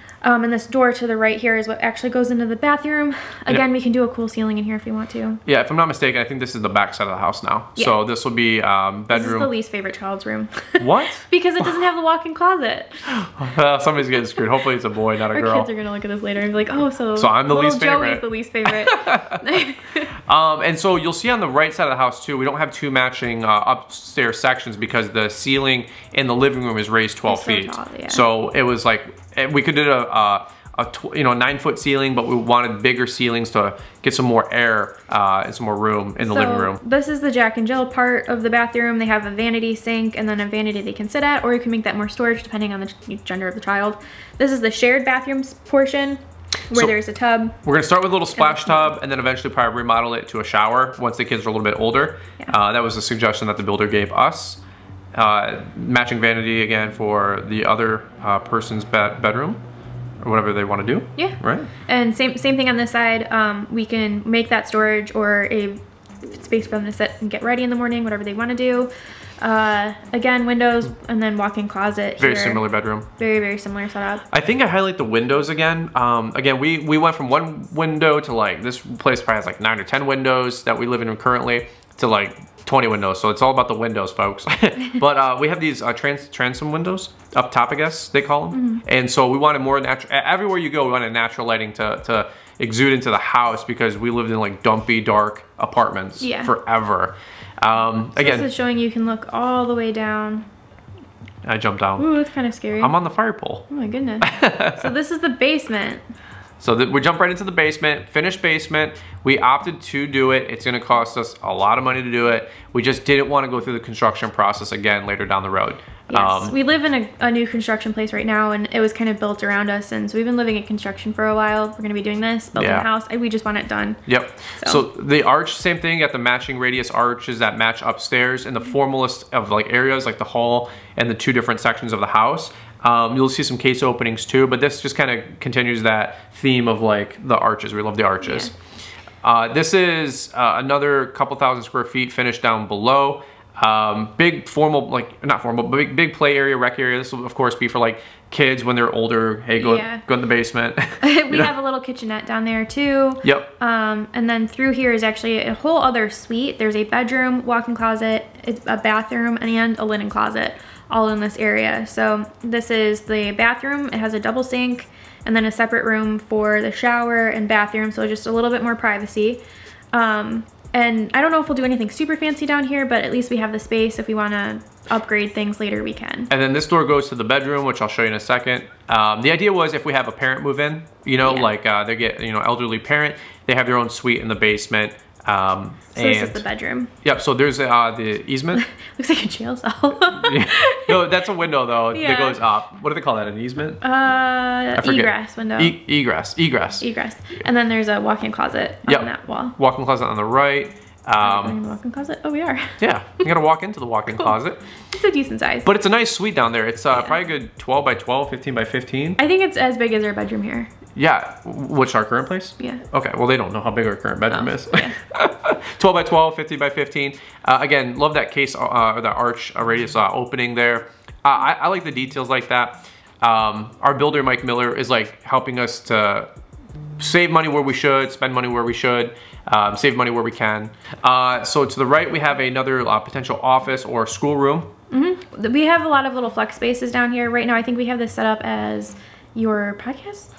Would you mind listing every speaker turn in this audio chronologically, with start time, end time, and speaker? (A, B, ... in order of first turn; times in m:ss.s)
0:00.2-0:05.4 A
0:05.5-0:09.5 B
0:09.1-0:13.0 A
0:10.8-0:11.2 B
0:13.1-0:15.7 B
0:15.3-0:20.1 A
0:17.2-0:19.4 B
0:20.3-0:36.8 B
0:27.3-0:28.2 A
0:36.2-0:47.6 A
0:47.6-0:54.6 B
0:48.4-0:48.9 A
0:55.2-0:59.6 B
1:00.2-1:01.7 B
1:01.2-1:08.9 A
1:09.4-1:12.6 A
1:12.2-1:13.1 B
1:13.2-1:14.2 A
1:14.3-1:38.5 B
1:28.5-1:28.8 A
1:36.2-1:36.5 A
1:38.2-1:40.5 A
1:41.4-1:42.1 B
1:42.0-1:42.9 A
1:42.8-1:43.6 B
1:43.7-1:46.0 A
1:44.2-1:44.9 B
1:46.6-1:56.6 B
1:56.1-2:04.0 A
2:02.6-2:02.9 B
2:04.1-2:18.5 B
2:04.6-2:04.8 A
2:18.2-2:18.5 A
2:19.2-2:31.5 B
2:29.6-2:30.0 A
2:31.0-2:49.4 A
2:33.2-2:33.5 B
2:49.9-2:56.3 A
2:56.3-3:06.4 B
3:01.2-3:01.5 A
3:06.0-3:06.9 A
3:07.0-3:08.6 B
3:08.6-3:11.1 A
3:10.1-3:13.8 B
3:11.9-3:12.4 A
3:13.8-3:15.8 A
3:14.8-3:16.9 B
3:16.8-3:19.6 A
3:18.9-3:21.6 B
3:21.2-3:22.8 A
3:22.8-3:24.6 B
3:24.9-3:25.7 A
3:25.6-3:29.2 B
3:29.2-3:30.7 A
3:31.0-3:46.3 B
3:34.3-3:34.9 A
3:47.0-3:54.7 B
3:54.9-4:00.3 A